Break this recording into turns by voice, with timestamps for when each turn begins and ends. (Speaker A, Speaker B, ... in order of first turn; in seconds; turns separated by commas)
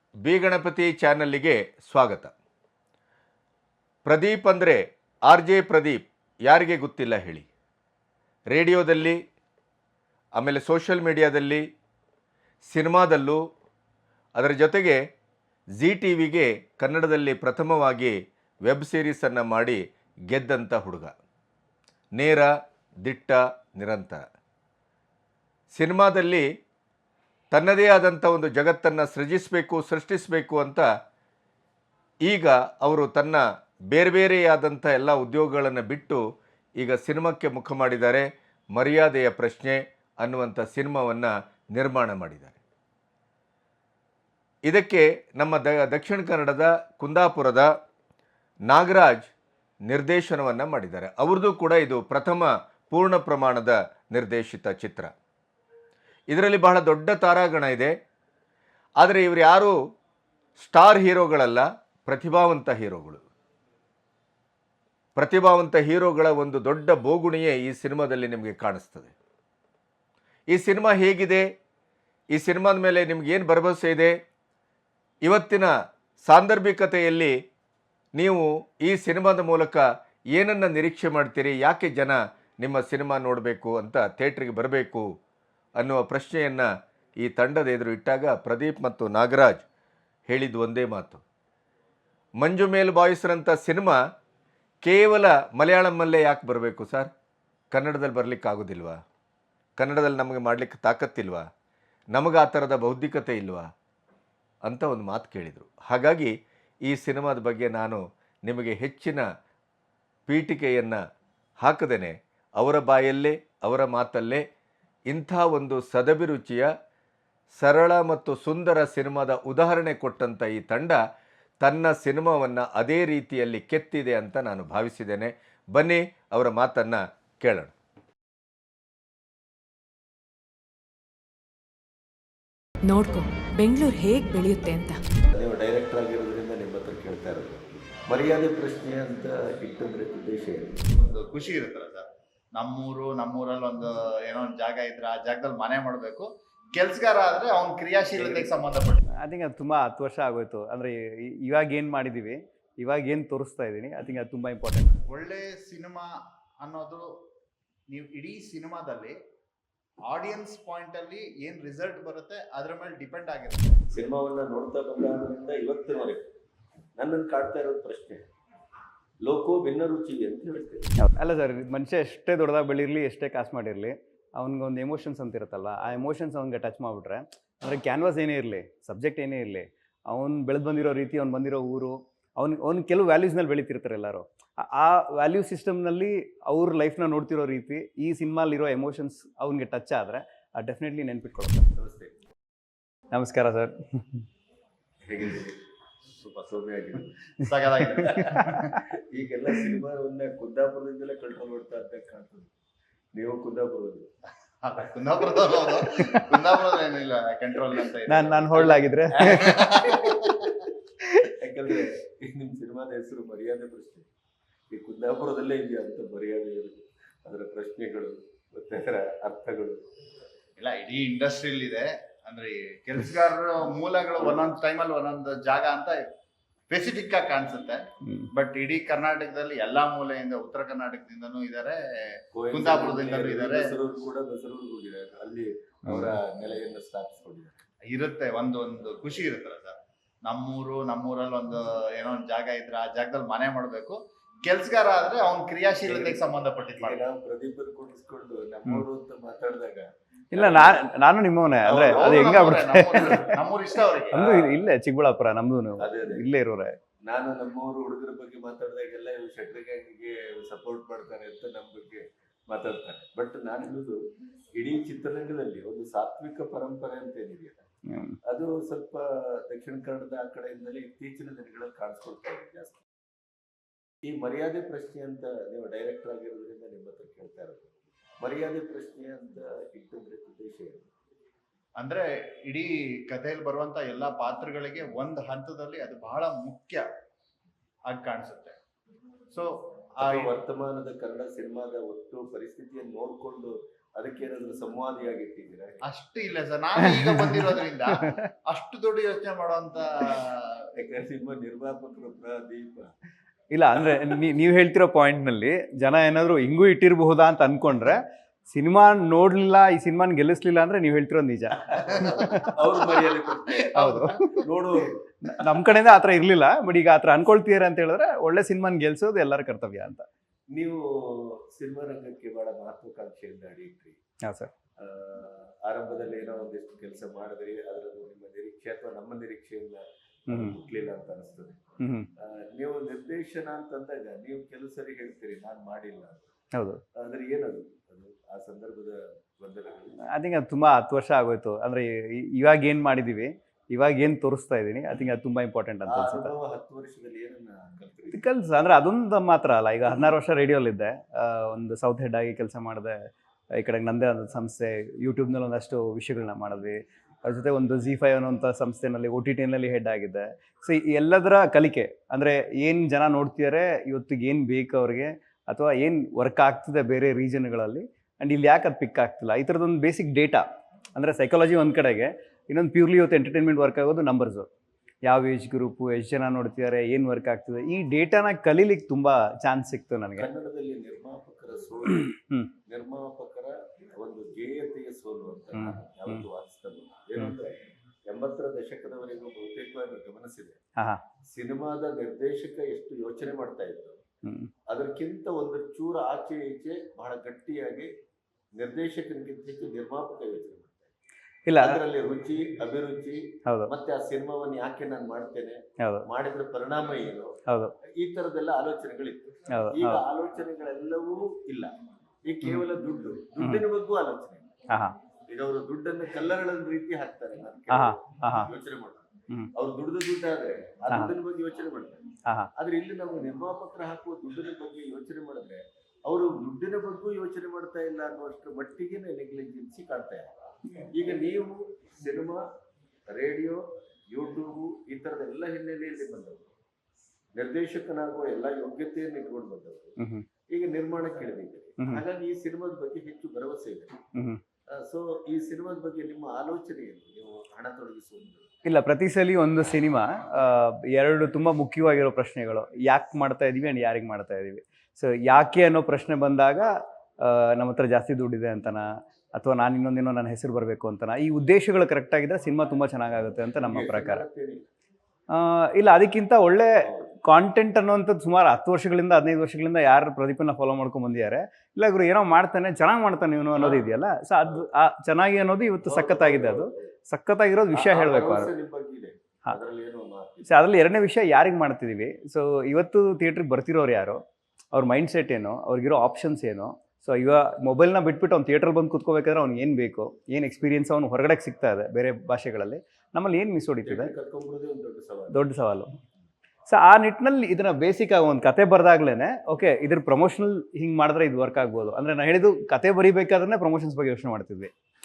Speaker A: 0.2-2.4, Speaker A: 4.0-7.5, Speaker A: 8.5-9.2, Speaker A: 10.4-11.6, Speaker A: 12.7-13.4, Speaker A: 14.4-15.0, Speaker A: 15.8-21.1, Speaker A: 22.1-22.5, Speaker A: 23.0-24.2, Speaker A: 25.7-26.4, Speaker A: 27.5-30.9, Speaker A: 32.2-36.2, Speaker A: 36.8-42.6, Speaker A: 44.7-47.7, Speaker A: 48.7-49.3, Speaker A: 49.9-55.1, Speaker A: 56.3-57.9, Speaker A: 59.0-59.8, Speaker A: 60.6-63.2, Speaker A: 65.2-69.1, Speaker A: 70.5-71.4, Speaker A: 72.3-74.1, Speaker A: 75.2-75.7, Speaker A: 76.2-77.3, Speaker A: 78.1-79.8, Speaker A: 80.3-85.1, Speaker A: 85.8-86.7, Speaker A: 87.2-89.6, Speaker A: 90.3-91.2, Speaker A: 92.4-94.0, Speaker A: 94.8-97.1, Speaker A: 97.7-99.0, Speaker A: 99.8-101.4, Speaker A: 102.1-103.6, Speaker A: 104.7-106.3, Speaker A: 106.9-109.2, Speaker A: 110.3-111.0, Speaker A: 111.6-114.4, Speaker A: 115.1-116.7, Speaker A: 117.6-121.0, Speaker A: 121.6-127.7, Speaker B: 132.8-135.0, Speaker C: 135.3-140.8, Speaker D: 141.0-149.0, Speaker E: 149.2-155.0, Speaker D: 155.1-156.1, Speaker D: 156.6-157.1, Speaker D: 157.9-159.2, Speaker D: 160.1-163.8, Speaker C: 163.9-166.2, Speaker C: 167.0-168.2, Speaker C: 169.2-170.9, Speaker E: 171.0-191.7, Speaker C: 191.8-192.1, Speaker E: 193.1-194.2, Speaker C: 195.1-195.6, Speaker C: 196.2-197.2, Speaker D: 197.5-198.7, Speaker E: 198.0-198.6, Speaker C: 198.1-198.3, Speaker C: 199.1-202.5, Speaker C: 203.1-204.1, Speaker D: 204.6-208.6, Speaker E: 206.0-206.4, Speaker E: 208.1-210.1, Speaker C: 208.5-210.2, Speaker D: 209.2-210.0, Speaker C: 211.4-214.1, Speaker C: 214.7-219.8, Speaker D: 220.6-226.0, Speaker C: 224.2-224.5, Speaker D: 226.7-227.8, Speaker D: 228.3-233.8, Speaker C: 232.3-237.6, Speaker D: 237.9-247.0, Speaker C: 245.8-246.2, Speaker C: 246.8-250.8, Speaker E: 250.3-253.3, Speaker D: 251.7-254.2, Speaker E: 254.1-256.7, Speaker C: 254.1-254.5, Speaker C: 255.8-256.2, Speaker C: 257.0-264.0, Speaker C: 264.5-267.6, Speaker E: 267.9-268.2, Speaker C: 268.3-272.8, Speaker C: 274.0-280.9, Speaker D: 281.8-286.9, Speaker D: 287.9-288.6, Speaker D: 289.3-290.3, Speaker C: 290.0-295.8, Speaker D: 295.8-300.6, Speaker E: 296.8-298.2, Speaker C: 300.8-302.9, Speaker E: 303.5-312.6, Speaker C: 312.5-315.5, Speaker E: 313.8-314.4, Speaker E: 315.2-320.1, Speaker C: 320.5-324.0, Speaker E: 324.2-324.5, Speaker C: 324.8-331.7, Speaker E: 331.8-332.1, Speaker C: 332.2-336.3, Speaker E: 336.5-336.8, Speaker C: 337.0-340.0, Speaker E: 340.0-346.3, Speaker C: 345.9-348.2, Speaker E: 348.1-353.0, Speaker E: 353.5-374.5, Speaker E: 375.0-380.3, Speaker C: 380.2-382.1, Speaker E: 382.1-382.5, Speaker C: 382.7-387.5, Speaker E: 385.5-386.2, Speaker C: 388.1-390.6, Speaker C: 391.3-394.0, Speaker E: 394.2-394.5, Speaker C: 394.7-397.9, Speaker C: 398.6-400.9, Speaker E: 401.5-401.8, Speaker C: 401.6-407.4, Speaker E: 405.8-406.1, Speaker E: 407.5-407.7, Speaker C: 408.0-411.7, Speaker E: 409.5-410.0, Speaker C: 412.2-414.5, Speaker E: 414.7-415.0, Speaker C: 415.3-422.0, Speaker E: 417.7-418.5, Speaker E: 420.9-421.1, Speaker C: 422.6-430.3, Speaker C: 430.9-432.4, Speaker C: 433.1-436.5, Speaker C: 437.4-440.0, Speaker E: 440.0-440.2, Speaker C: 440.5-444.0, Speaker E: 444.1-444.4, Speaker C: 444.7-448.5, Speaker E: 448.6-464.2, Speaker C: 463.6-464.7, Speaker E: 465.3-478.5, Speaker C: 466.8-467.1, Speaker C: 473.5-473.9, Speaker C: 475.8-476.9, Speaker C: 477.7-480.5, Speaker E: 480.4-484.2, Speaker E: 484.7-494.1, Speaker C: 493.9-495.4, Speaker E: 495.3-495.9, Speaker E: 496.7-504.7